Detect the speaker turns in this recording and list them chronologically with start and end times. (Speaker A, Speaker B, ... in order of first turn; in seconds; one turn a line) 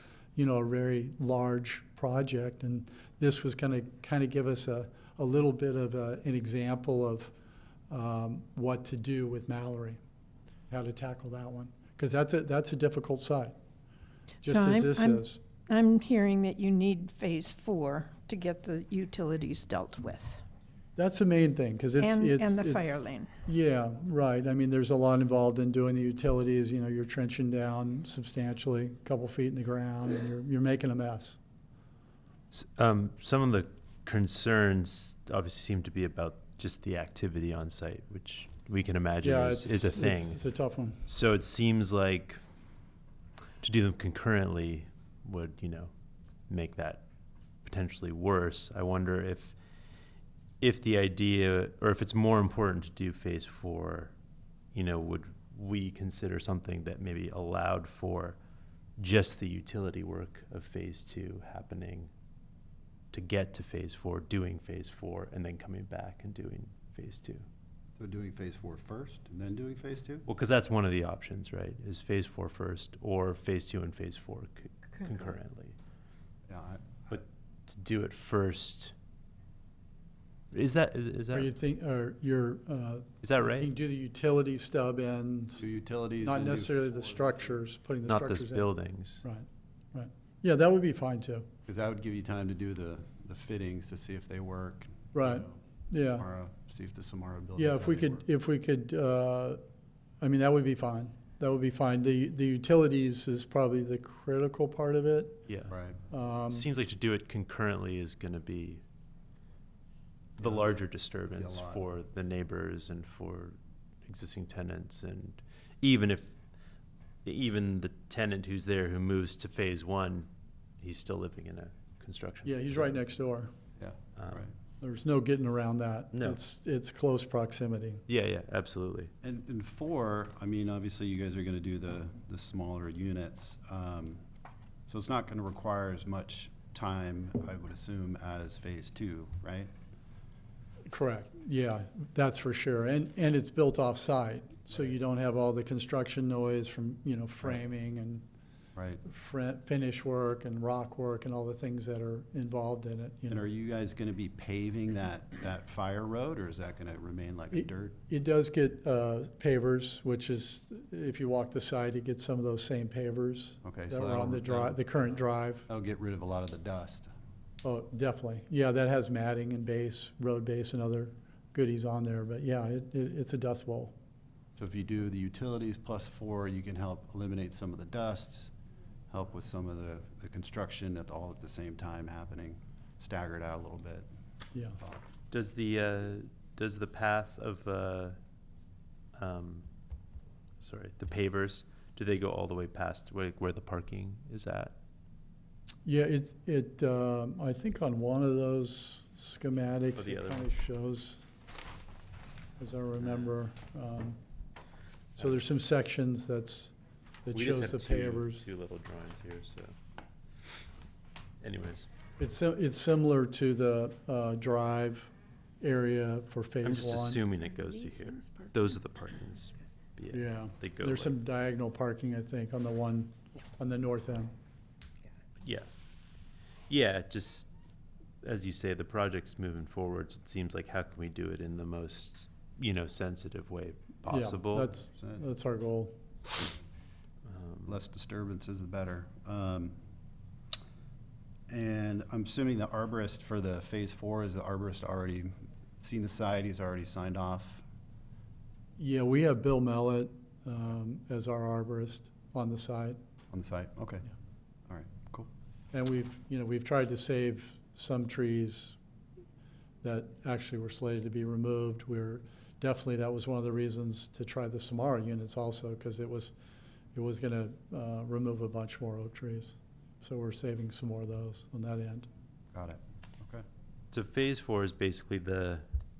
Speaker A: 0.3-7.3
Speaker A: 7.9-10.0
Speaker A: 10.7-13.6
Speaker B: 14.4-20.4
Speaker A: 14.4-15.4
Speaker A: 21.0-31.4
Speaker B: 22.0-23.3
Speaker C: 32.5-40.5
Speaker A: 39.2-41.0
Speaker C: 41.0-42.4
Speaker C: 43.6-45.9
Speaker C: 46.5-47.0
Speaker C: 47.6-49.6
Speaker C: 50.6-54.1
Speaker C: 54.7-58.4
Speaker C: 59.0-62.1
Speaker C: 63.1-67.5
Speaker D: 68.0-70.3
Speaker C: 70.3-75.8
Speaker D: 76.5-77.2
Speaker C: 77.1-78.9
Speaker C: 80.5-81.5
Speaker A: 81.3-85.7
Speaker C: 83.2-83.7
Speaker D: 85.6-87.3
Speaker A: 86.2-88.7
Speaker C: 88.1-89.2
Speaker A: 89.2-91.5
Speaker D: 91.7-95.6
Speaker A: 95.1-96.2
Speaker D: 96.2-98.2
Speaker A: 97.6-99.6
Speaker A: 100.2-105.4
Speaker C: 105.5-105.7
Speaker D: 105.7-106.0
Speaker A: 106.1-106.7
Speaker C: 106.5-108.8
Speaker C: 110.4-116.4
Speaker D: 110.4-110.8
Speaker D: 111.3-111.8
Speaker C: 117.2-120.3
Speaker C: 120.8-122.8
Speaker A: 122.5-123.5
Speaker D: 123.8-124.5
Speaker C: 124.2-124.5
Speaker A: 124.8-128.0
Speaker C: 126.1-126.4
Speaker C: 128.1-129.1
Speaker D: 129.2-134.2
Speaker D: 134.9-139.7
Speaker A: 140.9-148.2
Speaker D: 148.8-149.0
Speaker A: 149.0-153.5
Speaker D: 153.3-158.0
Speaker A: 157.5-165.7
Speaker D: 163.6-167.1
Speaker A: 167.6-173.9
Speaker D: 174.6-178.5
Speaker D: 179.1-184.1
Speaker A: 184.5-184.8
Speaker C: 185.3-188.2
Speaker C: 189.2-189.7
Speaker C: 190.6-194.7
Speaker A: 195.8-201.2
Speaker C: 199.9-200.5
Speaker A: 202.6-204.2
Speaker A: 205.2-208.5
Speaker C: 207.3-209.7
Speaker C: 211.4-211.9
Speaker A: 212.2-217.2
Speaker C: 216.6-221.1
Speaker A: 220.1-224.3
Speaker C: 225.4-225.7
Speaker C: 226.7-227.5
Speaker C: 228.2-234.7
Speaker A: 234.1-236.0
Speaker D: 235.0-235.2
Speaker C: 237.2-237.8
Speaker D: 237.7-239.8
Speaker D: 241.5-247.7
Speaker A: 248.8-253.0
Speaker D: 253.3-254.1
Speaker D: 254.7-255.3
Speaker A: 255.7-258.8
Speaker A: 259.8-266.3
Speaker A: 266.9-272.1
Speaker D: 272.5-273.4
Speaker C: 273.9-275.7